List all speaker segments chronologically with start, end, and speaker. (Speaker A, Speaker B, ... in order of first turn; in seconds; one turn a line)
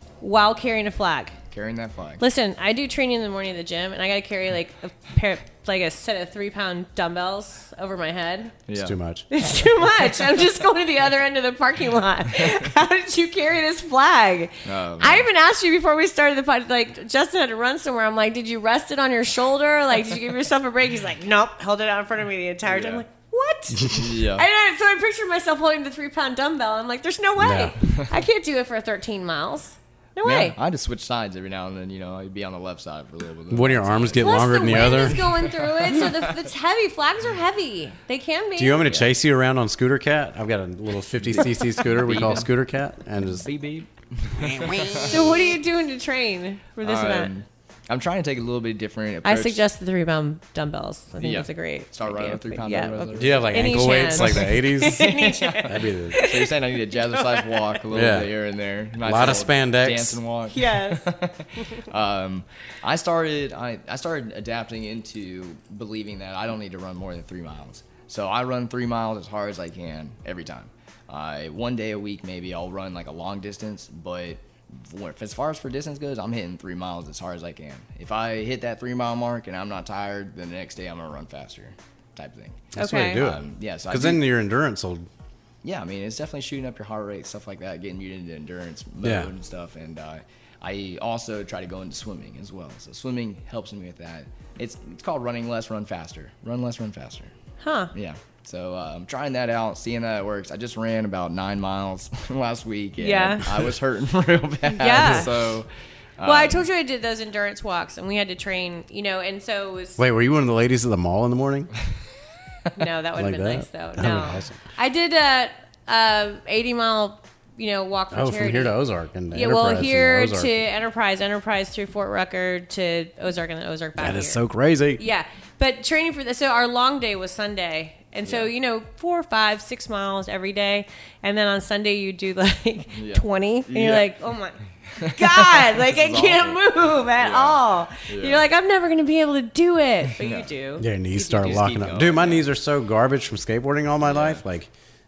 Speaker A: 0.2-1.4
Speaker B: 1.5-2.2
Speaker A: 2.2-8.6
Speaker B: 8.7-9.0
Speaker C: 8.8-9.2
Speaker A: 9.3-30.6
Speaker B: 14.6-15.3
Speaker B: 22.6-23.0
Speaker B: 23.9-24.4
Speaker C: 27.4-27.8
Speaker B: 27.8-28.1
Speaker B: 30.2-36.5
Speaker C: 33.5-35.2
Speaker A: 34.2-39.0
Speaker C: 38.6-43.5
Speaker B: 38.8-39.1
Speaker B: 41.2-42.5
Speaker B: 43.4-45.5
Speaker C: 44.4-45.3
Speaker A: 44.9-47.3
Speaker B: 46.8-49.6
Speaker A: 49.2-57.7
Speaker B: 51.2-84.2
Speaker C: 53.1-55.1
Speaker C: 55.6-56.2
Speaker C: 57.9-58.3
Speaker C: 59.0-60.2
Speaker A: 60.5-61.1
Speaker C: 82.7-85.1
Speaker A: 82.8-83.2
Speaker B: 85.6-97.3
Speaker C: 89.0-89.3
Speaker A: 97.6-97.9
Speaker B: 97.9-106.7
Speaker A: 103.0-103.5
Speaker A: 104.7-105.3
Speaker C: 105.0-105.3
Speaker A: 106.2-110.0
Speaker C: 110.0-111.7
Speaker A: 112.7-118.8
Speaker C: 113.2-114.6
Speaker C: 118.1-120.5
Speaker A: 119.3-124.4
Speaker C: 124.0-125.0
Speaker A: 125.0-140.9
Speaker B: 128.2-128.5
Speaker B: 132.9-134.1
Speaker B: 134.9-138.4
Speaker B: 140.2-140.5
Speaker C: 140.8-144.7
Speaker B: 141.1-142.4
Speaker B: 144.0-144.4